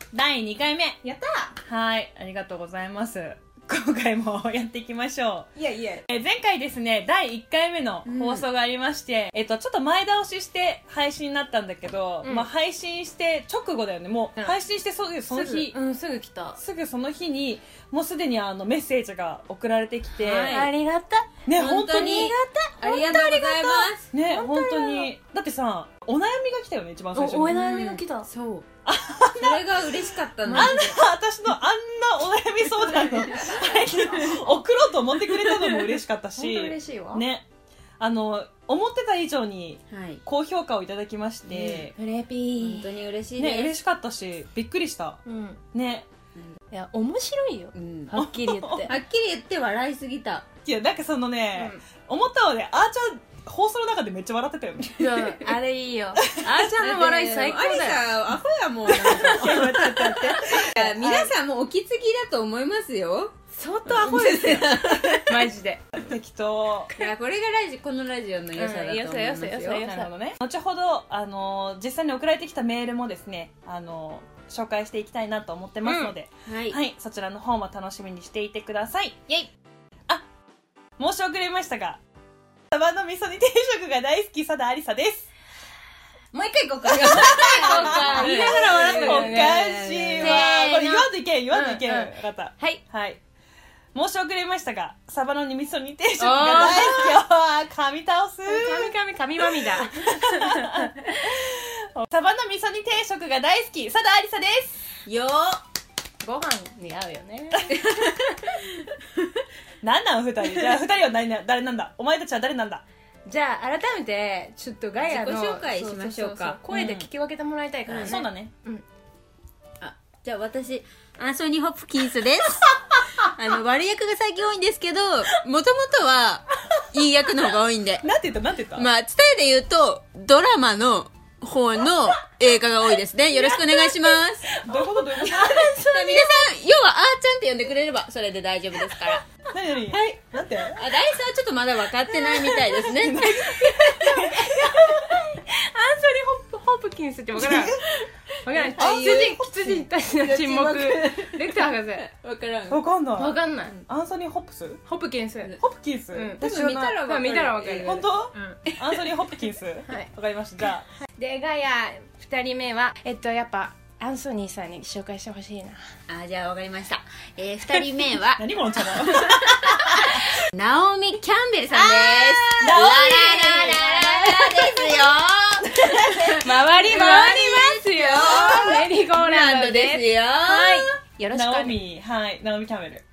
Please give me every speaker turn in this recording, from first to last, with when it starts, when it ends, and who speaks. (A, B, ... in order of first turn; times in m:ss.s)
0:00.1-0:01.0 A
0:01.0-0:01.5 B
0:01.6-0:05.5 A
0:05.6-0:06.0 B
0:06.1-0:15.7 A
0:08.0-0:08.5 C
0:12.2-0:12.5 B
0:15.3-0:16.6 B
0:16.6-0:20.7 A
0:20.2-0:25.1 B
0:20.3-0:20.7 C
0:21.4-0:22.4 A
0:21.6-0:24.5 C
0:24.1-0:27.6 A
0:27.1-0:28.3 B
0:27.5-0:28.7 C
0:28.8-0:29.7 A
0:29.4-0:31.0 C
0:30.5-0:31.0 B
0:30.5-0:37.5 A
0:35.4-0:37.2 B
0:38.0-0:41.9 A
0:39.9-0:40.2 C
0:41.5-0:41.9 C
0:41.9-0:42.9 B
0:42.6-0:43.7 C
0:43.4-0:45.2 A
0:45.2-0:45.6 B
0:45.7-0:46.1 A
0:46.7-0:49.0 B
0:47.7-0:48.1 C
0:48.1-0:48.9 A
0:48.9-0:50.5 C
0:50.6-0:55.6 A
0:51.5-0:51.8 C
0:55.0-0:58.1 B
0:56.8-1:03.3 C
0:59.0-1:00.8 A
0:59.0-1:01.3 B
1:03.6-1:06.1 B
1:03.8-1:05.5 C
1:06.0-1:06.9 A
1:06.9-1:09.9 C
1:08.5-1:10.1 B
1:09.8-1:19.2 A
1:15.8-1:16.1 B
1:16.4-1:16.8 C
1:21.0-1:22.0 A
1:22.7-1:25.3 A
1:26.3-1:31.0 C
1:26.9-1:33.2 A
1:27.0-1:29.7 B
1:30.2-1:30.8 B
1:31.5-1:32.8 B
1:33.9-1:44.8 A
1:36.2-1:37.2 B
1:38.5-1:41.0 B
1:45.0-1:45.6 C
1:46.2-1:47.7 B
1:47.7-1:49.2 C
1:49.8-1:52.8 A
1:53.2-1:58.8 B
1:55.0-1:56.6 C
1:56.7-1:57.1 A
1:57.9-1:58.2 C
1:57.9-1:58.5 A
1:59.8-2:08.1 C
2:08.0-2:08.9 A
2:08.8-2:14.5 C
2:14.5-2:15.7 A
2:14.7-2:16.5 B
2:15.4-2:19.2 C
2:19.5-2:20.8 A
2:20.7-2:24.2 C
2:22.2-2:24.9 A
2:24.3-2:27.8 B
2:27.4-2:32.8 C
2:28.4-2:32.0 B
2:32.7-2:34.8 A
2:33.2-2:33.8 B
2:34.8-2:35.5 B
2:35.6-2:37.1 A
2:36.1-2:38.1 B
2:36.4-2:38.0 C
2:37.8-2:40.9 A
2:41.1-2:45.8 B
2:46.1-2:48.4 C
2:47.7-2:50.2 A
2:48.9-3:00.9 C
2:51.7-2:55.1 B
2:52.6-2:53.6 A
2:56.3-3:01.8 B
3:01.3-3:03.0 A